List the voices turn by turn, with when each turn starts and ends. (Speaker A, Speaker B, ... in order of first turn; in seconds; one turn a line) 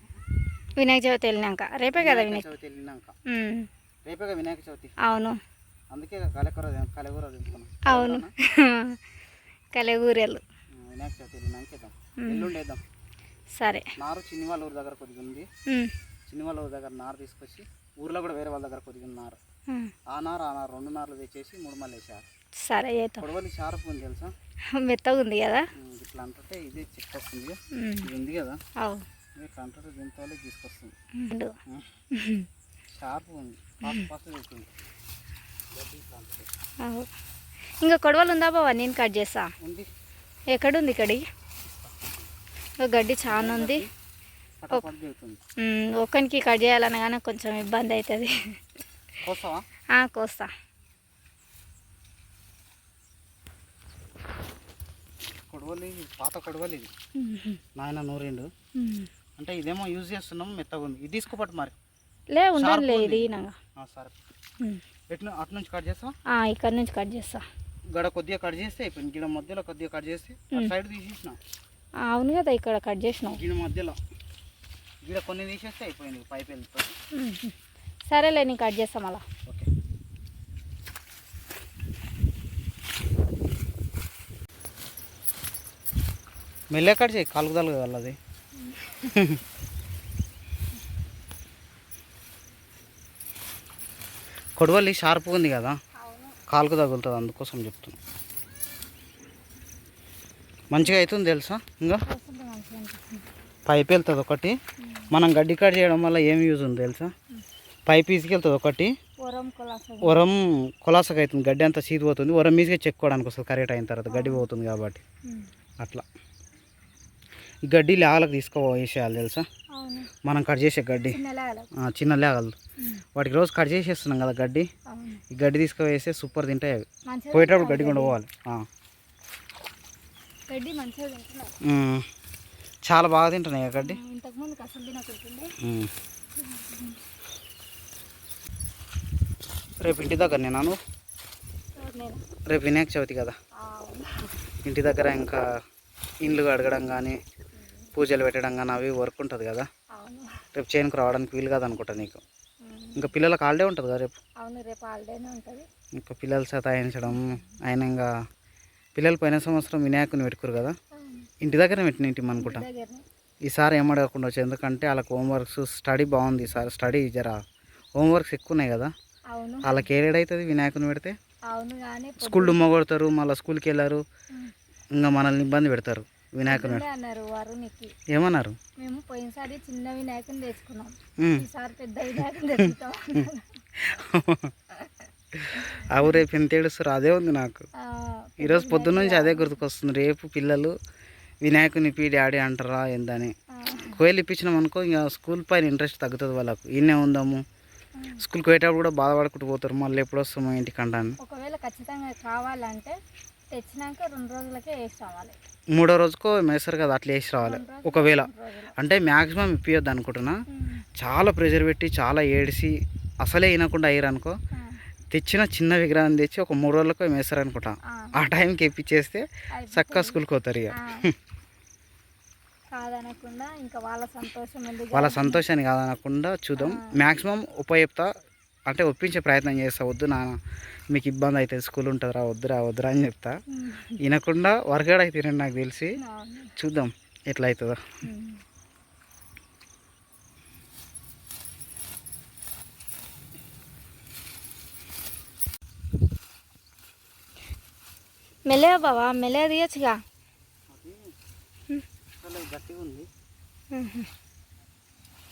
Speaker A: 0.8-2.5
Speaker B: 1.9-3.1
Speaker A: 3.3-3.7
Speaker B: 4.0-4.9
Speaker A: 5.0-5.4
Speaker B: 5.9-8.3
Speaker A: 7.8-9.0
Speaker A: 9.7-10.4
Speaker B: 10.7-12.8
Speaker A: 12.2-12.5
Speaker A: 13.6-13.9
Speaker B: 14.0-15.5
Speaker B: 16.3-19.4
Speaker B: 20.1-22.2
Speaker A: 22.6-23.2
Speaker B: 23.2-24.3
Speaker A: 24.7-25.6
Speaker B: 25.7-28.6
Speaker A: 27.8-28.1
Speaker B: 29.4-30.9
Speaker A: 31.1-31.5
Speaker B: 31.7-31.9
Speaker A: 32.1-32.5
Speaker B: 32.9-34.7
Speaker B: 35.7-36.5
Speaker A: 36.8-37.1
Speaker A: 37.8-39.5
Speaker B: 39.6-39.9
Speaker A: 40.5-41.2
Speaker A: 42.8-43.9
Speaker B: 43.3-43.9
Speaker B: 44.6-45.4
Speaker A: 45.6-48.6
Speaker B: 49.2-49.6
Speaker A: 49.9-50.5
Speaker B: 55.5-56.9
Speaker A: 57.1-57.6
Speaker B: 57.8-58.5
Speaker A: 58.8-59.1
Speaker B: 59.4-61.8
Speaker A: 62.3-63.6
Speaker B: 62.6-64.2
Speaker B: 65.1-66.1
Speaker A: 66.3-67.4
Speaker B: 67.9-71.4
Speaker A: 72.0-73.4
Speaker B: 73.3-74.0
Speaker B: 75.0-76.9
Speaker A: 77.1-77.5
Speaker A: 78.1-79.2
Speaker B: 86.7-88.2
Speaker A: 88.6-89.1
Speaker B: 89.1-89.4
Speaker B: 94.6-95.8
Speaker A: 96.0-96.4
Speaker B: 96.5-98.0
Speaker B: 100.7-102.0
Speaker A: 102.1-103.2
Speaker B: 103.7-104.5
Speaker A: 104.8-105.1
Speaker B: 105.1-107.1
Speaker B: 107.9-108.9
Speaker A: 109.2-110.2
Speaker B: 110.0-115.0
Speaker A: 114.1-114.5
Speaker B: 117.7-119.5
Speaker A: 119.7-120.1
Speaker B: 120.2-121.2
Speaker A: 121.1-121.7
Speaker B: 121.8-122.5
Speaker B: 123.2-124.7
Speaker A: 124.9-125.2
Speaker B: 125.3-128.6
Speaker A: 127.0-128.2
Speaker A: 130.5-131.5
Speaker B: 131.6-132.0
Speaker B: 132.8-134.0
Speaker A: 133.8-135.5
Speaker B: 135.6-135.9
Speaker A: 136.4-137.0
Speaker B: 139.8-140.8
Speaker A: 141.8-142.2
Speaker B: 142.5-143.3
Speaker A: 143.6-144.3
Speaker B: 144.6-145.4
Speaker B: 146.2-147.2
Speaker B: 147.9-149.7
Speaker A: 149.9-150.3
Speaker B: 150.5-152.2
Speaker A: 152.6-153.1
Speaker B: 152.9-154.1
Speaker A: 154.4-155.7
Speaker B: 156.0-158.1
Speaker A: 157.1-157.6
Speaker B: 158.9-160.8
Speaker A: 161.0-161.2
Speaker B: 161.4-162.6
Speaker A: 162.3-163.0
Speaker B: 163.4-167.4
Speaker B: 168.0-168.9
Speaker A: 169.3-169.8
Speaker B: 169.6-171.2
Speaker A: 171.5-172.6
Speaker B: 172.2-174.0
Speaker B: 174.9-176.8
Speaker A: 176.5-177.9
Speaker B: 178.1-178.6
Speaker A: 178.8-183.5
Speaker B: 181.2-181.4
Speaker B: 182.6-184.5
Speaker B: 185.3-187.6
Speaker A: 185.6-186.2
Speaker A: 187.8-189.6
Speaker B: 188.4-190.8
Speaker B: 191.4-197.4
Speaker A: 193.6-194.0
Speaker A: 197.9-198.2
Speaker B: 198.2-201.2
Speaker A: 201.2-203.0
Speaker A: 203.5-205.3
Speaker B: 205.7-210.3
Speaker A: 207.4-208.7
Speaker A: 210.5-210.8
Speaker B: 211.0-214.3
Speaker B: 215.1-221.1
Speaker A: 219.6-220.2
Speaker A: 222.7-225.4
Speaker B: 224.9-228.1
Speaker A: 226.6-226.9
Speaker B: 228.7-230.3
Speaker B: 230.9-233.3
Speaker A: 233.5-233.9
Speaker B: 234.0-236.0
Speaker A: 236.0-236.5
Speaker B: 236.6-237.8
Speaker A: 238.0-238.4
Speaker A: 248.4-250.0
Speaker B: 250.7-251.0
Speaker B: 252.2-253.1
Speaker A: 253.7-254.1